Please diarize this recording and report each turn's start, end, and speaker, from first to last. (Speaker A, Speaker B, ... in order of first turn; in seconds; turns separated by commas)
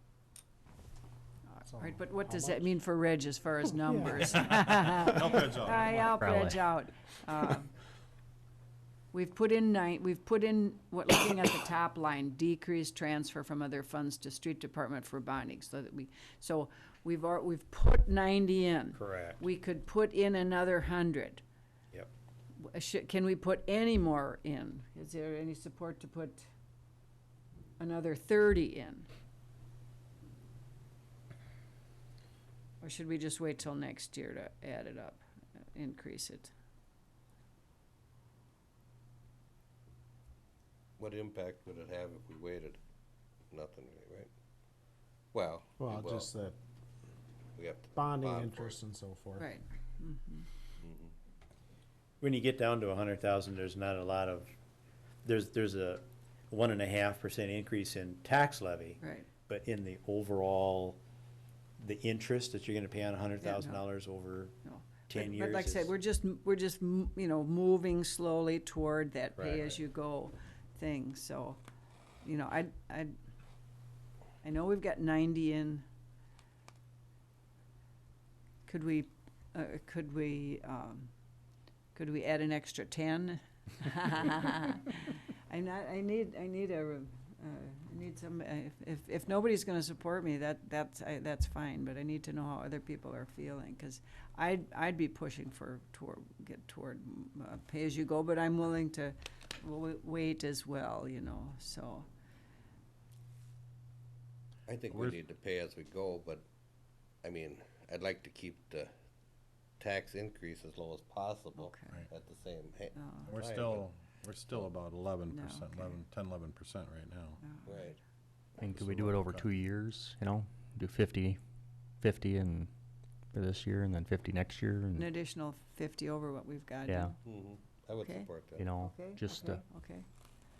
Speaker A: 1.5-7.7, Speaker B: 1.7-2.7, Speaker C: 4.7-6.2, Speaker D: 6.0-6.7, Speaker A: 9.1-21.4, Speaker E: 18.9-19.4, Speaker A: 22.6-26.4, Speaker A: 27.8-29.1, Speaker A: 32.8-36.5, Speaker F: 41.0-42.8, Speaker F: 43.5-44.3, Speaker F: 45.3-46.3, Speaker B: 45.8-46.5, Speaker F: 47.5-48.8, Speaker B: 47.9-49.5, Speaker A: 49.4-50.5, Speaker F: 50.8-51.1, Speaker E: 52.2-54.5, Speaker E: 55.2-61.0, Speaker A: 59.0-59.3, Speaker E: 61.8-64.5, Speaker A: 63.4-63.8, Speaker A: 64.6-71.6, Speaker E: 65.1-65.9, Speaker A: 72.2-73.1, Speaker A: 74.4-75.8, Speaker A: 78.6-81.1, Speaker A: 81.9-102.1, Speaker F: 104.7-106.5, Speaker C: 104.9-105.2, Speaker F: 107.2-108.9, Speaker F: 109.8-113.8, Speaker A: 111.6-112.1, Speaker A: 113.0-113.3, Speaker C: 113.2-117.5, Speaker A: 115.3-116.0, Speaker A: 117.4-118.0, Speaker F: 117.6-118.0, Speaker D: 118.6-121.4, Speaker C: 118.6-119.5, Speaker D: 122.0-122.7, Speaker D: 123.3-125.1, Speaker A: 125.0-127.2, Speaker D: 126.8-127.1, Speaker F: 127.2-128.7, Speaker A: 128.0-130.1, Speaker D: 128.6-129.6